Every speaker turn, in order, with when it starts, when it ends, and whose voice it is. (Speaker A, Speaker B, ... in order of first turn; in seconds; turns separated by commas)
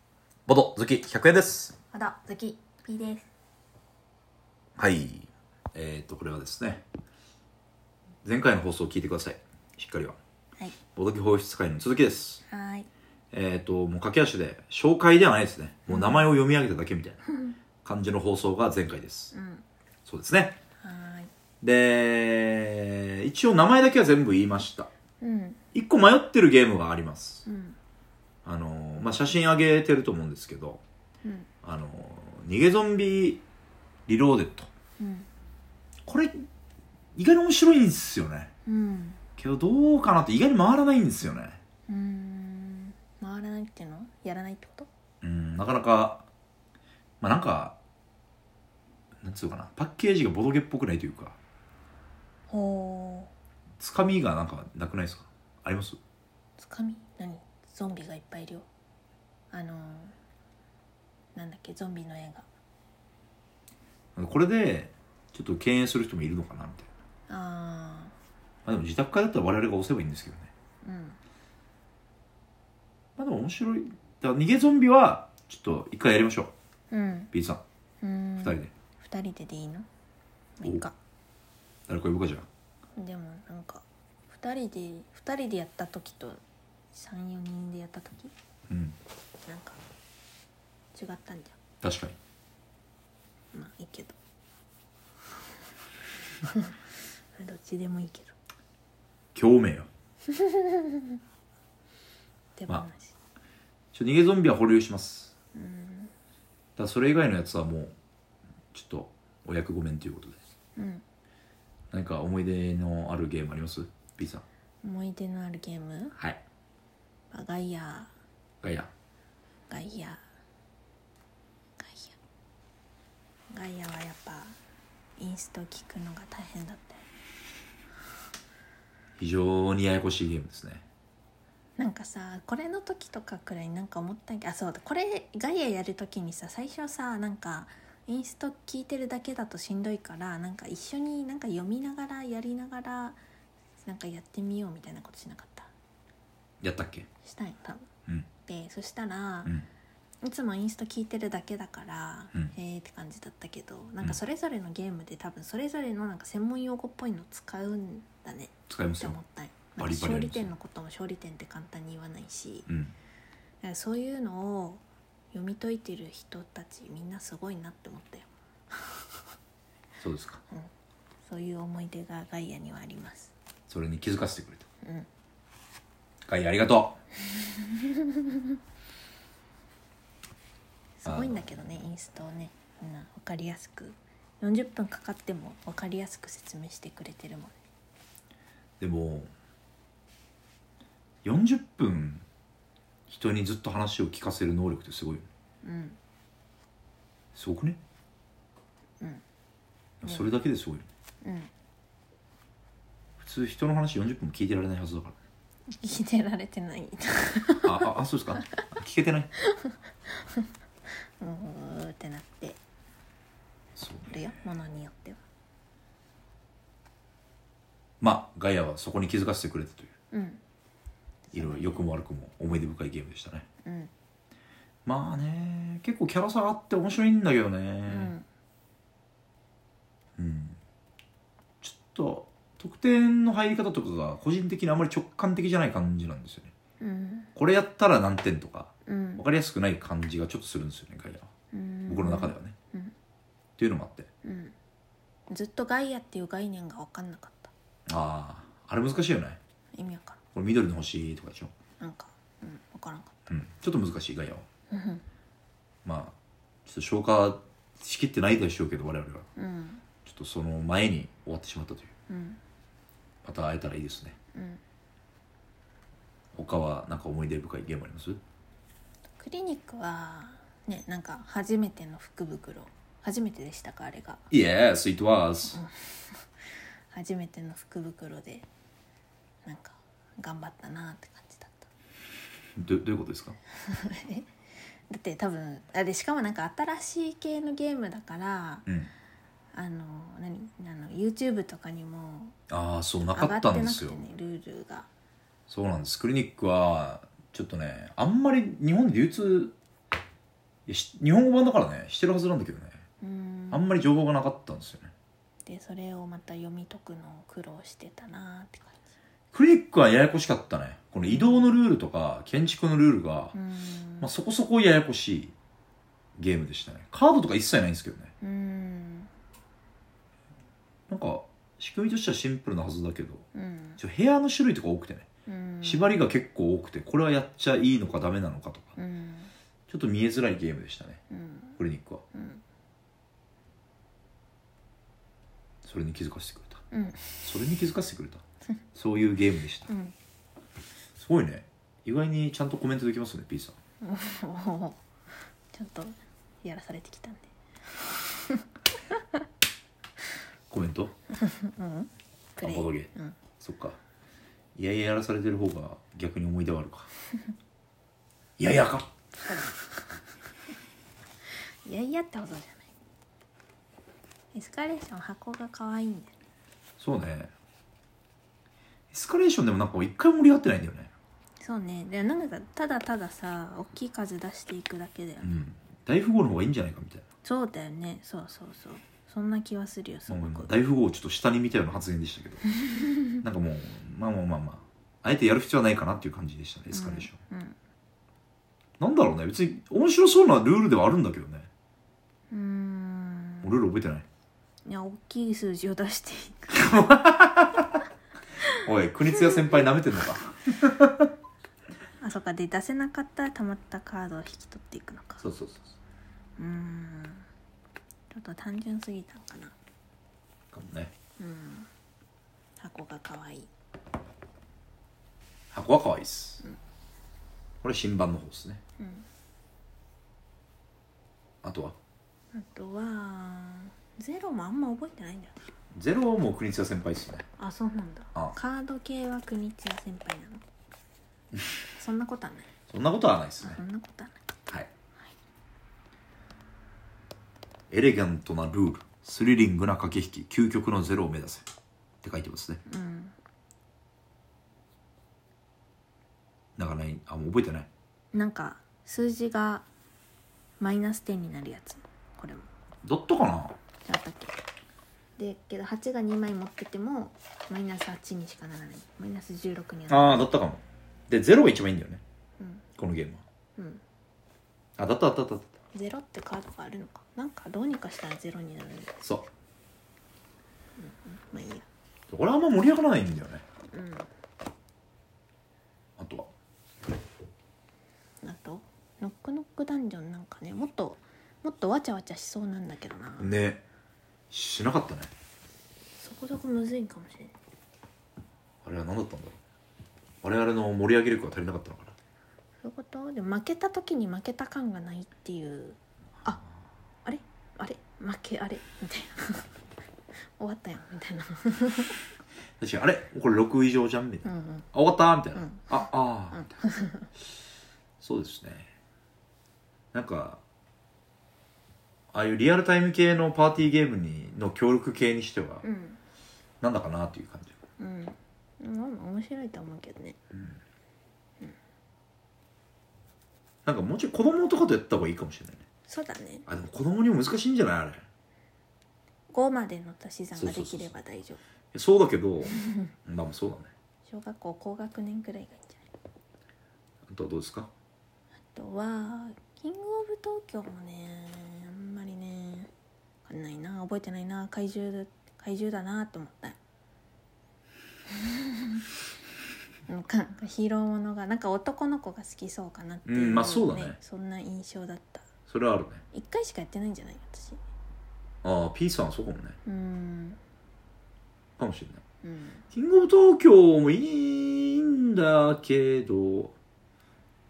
Speaker A: 0.5-1.7, Speaker B: 1.9-3.3, Speaker A: 4.8-6.8, Speaker A: 8.2-10.2, Speaker A: 10.9-12.4, Speaker B: 12.5-12.9, Speaker A: 13.3-17.2, Speaker B: 15.9-16.3, Speaker A: 17.8-19.3, Speaker B: 19.3-19.6, Speaker A: 20.1-20.6, Speaker B: 20.8-21.3, Speaker A: 21.6-24.9, Speaker B: 25.2-25.6, Speaker A: 25.7-27.4, Speaker B: 27.4-27.8, Speaker A: 28.4-30.8, Speaker A: 31.6-33.4, Speaker A: 34.1-34.7, Speaker B: 35.0-35.3, Speaker A: 36.1-36.4, Speaker A: 37.1-38.5, Speaker B: 38.6-39.2, Speaker A: 39.4-41.6, Speaker B: 41.9-44.9, Speaker A: 45.2-46.2, Speaker A: 47.2-47.8, Speaker A: 49.2-51.4, Speaker B: 52.5-53.3, Speaker A: 53.8-56.0, Speaker B: 56.6-58.7, Speaker B: 59.5-60.1, Speaker B: 61.3-62.5, Speaker A: 64.2-66.9, Speaker B: 67.3-68.1, Speaker A: 68.6-70.5, Speaker B: 70.8-71.2, Speaker A: 73.2-76.5, Speaker B: 76.9-77.3, Speaker A: 77.3-77.6, Speaker B: 78.0-79.9, Speaker A: 78.4-78.7, Speaker B: 80.6-80.9, Speaker A: 81.9-82.5, Speaker B: 83.0-86.4, Speaker B: 86.9-88.3, Speaker A: 88.7-89.0, Speaker B: 89.5-89.8, Speaker B: 90.9-91.6, Speaker A: 91.8-92.2, Speaker B: 93.5-94.2, Speaker B: 96.4-96.8, Speaker B: 97.3-98.3, Speaker A: 99.3-99.9, Speaker B: 100.3-101.1, Speaker B: 102.5-103.1, Speaker A: 103.9-105.3, Speaker B: 105.5-106.1, Speaker A: 106.8-107.9, Speaker A: 108.7-110.4, Speaker B: 110.8-111.0, Speaker A: 111.9-114.4, Speaker B: 114.8-116.2, Speaker A: 116.1-116.4, Speaker B: 117.3-118.1, Speaker A: 118.6-118.9, Speaker B: 119.7-120.2, Speaker B: 121.8-122.2, Speaker B: 123.5-124.6, Speaker B: 125.2-127.0, Speaker A: 129.2-130.8, Speaker B: 131.8-143.2, Speaker B: 143.8-145.7, Speaker A: 146.6-147.1, Speaker B: 147.2-147.9, Speaker B: 148.5-149.5, Speaker B: 150.2-162.7, Speaker A: 158.7-159.2, Speaker A: 159.8-160.5, Speaker A: 162.7-162.9, Speaker B: 163.6-169.0, Speaker A: 170.0-170.4, Speaker B: 171.2-173.3, Speaker A: 173.7-174.7, Speaker B: 174.8-175.1, Speaker A: 176.2-177.0, Speaker B: 177.4-178.5, Speaker B: 181.0-187.6, Speaker A: 181.1-181.4, Speaker A: 188.8-189.3, Speaker A: 191.2-192.2, Speaker A: 193.1-195.3, Speaker B: 195.6-196.0, Speaker A: 197.3-197.8, Speaker A: 200.0-200.9, Speaker B: 200.0-200.3, Speaker B: 201.2-201.5, Speaker A: 203.2-205.2, Speaker B: 205.7-208.4, Speaker A: 207.6-209.3, Speaker B: 209.4-210.4, Speaker B: 211.2-212.6, Speaker A: 213.8-214.2, Speaker B: 214.1-215.2, Speaker A: 218.0-219.9, Speaker B: 220.1-220.4, Speaker B: 221.3-221.9, Speaker A: 221.3-223.4, Speaker B: 223.6-223.9, Speaker A: 224.8-228.1, Speaker B: 227.9-228.2, Speaker A: 230.2-230.6, Speaker A: 231.6-236.5, Speaker B: 236.8-237.3, Speaker A: 237.3-241.3, Speaker B: 238.8-239.2, Speaker B: 241.5-242.9, Speaker A: 241.9-242.5, Speaker A: 243.6-244.1, Speaker B: 244.2-244.5, Speaker B: 245.3-247.5, Speaker A: 247.9-249.4, Speaker B: 249.7-250.2, Speaker A: 250.3-251.5, Speaker B: 251.8-253.3, Speaker A: 253.3-254.4, Speaker B: 254.7-255.0, Speaker A: 255.8-256.1, Speaker A: 256.6-259.3, Speaker B: 259.4-259.8, Speaker A: 260.0-261.9, Speaker B: 262.1-262.4, Speaker A: 263.2-264.1, Speaker B: 264.3-264.6, Speaker A: 266.3-268.2, Speaker B: 269.1-274.2, Speaker A: 274.3-275.6, Speaker B: 275.5-276.2, Speaker B: 276.9-278.5, Speaker B: 279.4-281.7, Speaker A: 282.6-283.4, Speaker B: 283.6-284.3, Speaker B: 284.9-288.6, Speaker A: 288.6-288.9, Speaker B: 289.5-292.4, Speaker A: 292.5-294.0, Speaker B: 293.1-294.9, Speaker A: 295.5-299.5, Speaker A: 300.7-302.8, Speaker B: 303.0-303.7, Speaker A: 303.5-304.9, Speaker B: 305.4-308.8, Speaker A: 309.3-313.4, Speaker B: 311.0-311.5, Speaker B: 313.3-314.1, Speaker A: 314.0-315.3, Speaker A: 316.2-318.1, Speaker B: 318.2-319.1, Speaker A: 320.9-323.2, Speaker B: 323.3-323.8, Speaker A: 323.8-325.1, Speaker B: 325.2-325.9, Speaker A: 325.6-328.7, Speaker B: 328.8-329.3, Speaker A: 329.7-331.0, Speaker B: 331.1-331.6, Speaker A: 331.6-332.0, Speaker B: 332.1-332.4, Speaker A: 335.6-336.6, Speaker B: 336.7-337.2, Speaker A: 337.2-338.2, Speaker A: 338.7-339.7, Speaker B: 339.7-339.9, Speaker A: 341.0-343.6, Speaker B: 343.8-344.8, Speaker B: 345.5-349.0, Speaker A: 350.5-350.9, Speaker B: 351.1-353.2, Speaker A: 352.4-353.8, Speaker A: 354.6-356.9, Speaker A: 358.4-358.9, Speaker B: 359.2-359.6, Speaker B: 361.6-362.7, Speaker B: 364.3-366.1, Speaker A: 366.8-367.3, Speaker A: 368.9-370.9, Speaker B: 371.4-375.3, Speaker A: 375.2-377.0, Speaker B: 377.2-380.5, Speaker A: 380.1-382.4, Speaker B: 382.6-382.9, Speaker A: 383.1-387.2, Speaker B: 386.7-387.6, Speaker A: 388.8-391.5, Speaker B: 392.3-393.5, Speaker A: 393.4-394.1, Speaker B: 394.6-396.6, Speaker A: 396.5-397.7, Speaker A: 398.5-401.1, Speaker B: 399.2-399.6, Speaker B: 402.0-405.2, Speaker A: 405.2-405.7, Speaker B: 406.4-407.3, Speaker B: 408.1-409.5, Speaker A: 410.5-410.9, Speaker B: 411.2-411.7, Speaker B: 412.6-413.5, Speaker A: 415.5-416.4, Speaker A: 417.6-418.6, Speaker B: 418.8-419.1, Speaker A: 421.4-421.8, Speaker B: 422.3-425.4, Speaker A: 425.7-427.2, Speaker B: 427.4-430.4, Speaker B: 431.8-432.5, Speaker A: 432.7-433.6, Speaker B: 433.4-434.3, Speaker A: 437.7-441.4, Speaker A: 442.0-442.6, Speaker B: 442.7-443.1, Speaker A: 446.6-447.7, Speaker B: 448.1-449.6, Speaker B: 450.6-452.5, Speaker A: 452.8-453.5, Speaker B: 453.9-454.4, Speaker B: 455.2-460.3, Speaker A: 459.9-462.0, Speaker B: 462.4-462.6, Speaker A: 462.8-463.2, Speaker B: 463.6-463.8, Speaker A: 464.8-465.5, Speaker B: 465.7-469.0, Speaker A: 469.0-469.3, Speaker B: 470.8-471.6, Speaker A: 472.1-473.4, Speaker B: 473.7-474.1, Speaker A: 476.0-476.3, Speaker B: 478.2-483.3, Speaker A: 483.2-483.6, Speaker A: 484.3-485.1, Speaker B: 486.0-487.3, Speaker A: 488.6-489.4, Speaker A: 490.2-491.9, Speaker B: 492.6-496.4, Speaker B: 497.0-499.6, Speaker B: 500.4-502.0, Speaker A: 502.6-506.6, Speaker B: 504.2-504.7, Speaker B: 505.3-505.8, Speaker B: 506.3-507.1, Speaker A: 508.0-508.7, Speaker A: 509.9-510.4, Speaker A: 512.1-515.6, Speaker B: 515.6-516.0, Speaker A: 516.6-517.5, Speaker B: 517.8-520.2, Speaker A: 523.6-525.6, Speaker B: 525.9-526.5, Speaker A: 526.5-528.0, Speaker B: 529.3-531.4, Speaker A: 530.4-530.9, Speaker A: 531.7-533.7, Speaker B: 534.1-535.9, Speaker A: 537.1-537.7, Speaker B: 538.5-542.7, Speaker B: 543.2-546.6, Speaker B: 548.1-548.9, Speaker B: 549.9-555.3, Speaker A: 553.0-554.0, Speaker A: 555.5-556.0, Speaker B: 556.1-557.6, Speaker A: 558.4-559.6, Speaker B: 559.6-560.4, Speaker A: 561.6-562.0, Speaker B: 562.2-562.6, Speaker A: 562.7-566.5